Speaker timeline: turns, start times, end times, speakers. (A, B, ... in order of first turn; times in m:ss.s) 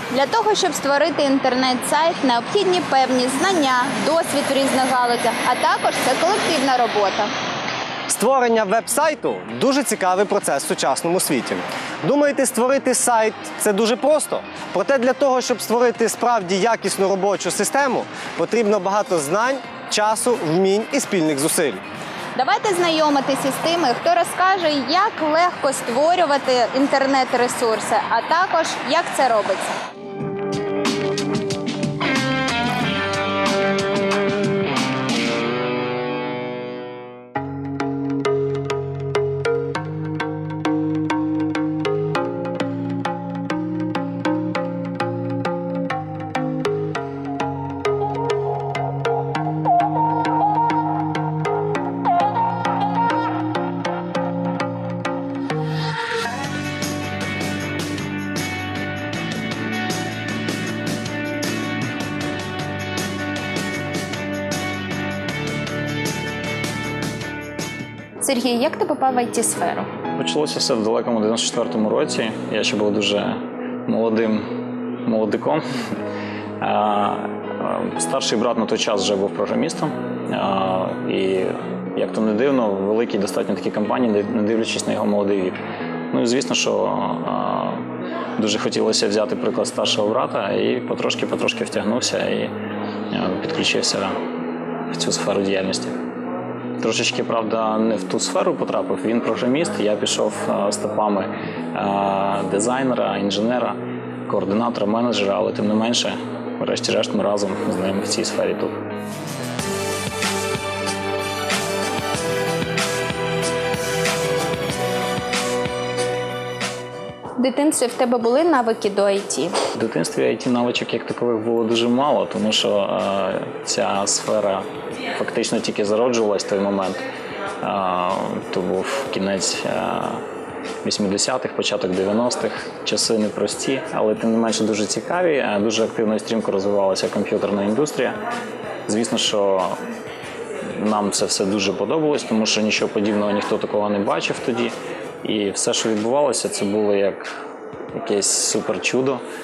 0:00.1-0:07.3 A
0:08.1-0:21.8 B
0:22.4-0:29.7 A
1:08.2-1:09.9 A
1:10.2-1:15.6 C
1:16.6-1:25.6 C
1:26.1-1:32.5 C
1:33.1-1:34.2 C
1:34.9-1:35.9 C
1:36.8-1:48.8 C
1:57.4-1:59.5 A
1:59.7-2:07.0 C
2:07.6-2:10.2 C
2:10.8-2:18.2 C
2:18.9-2:19.8 C
2:20.6-2:27.4 C
2:27.9-2:29.2 C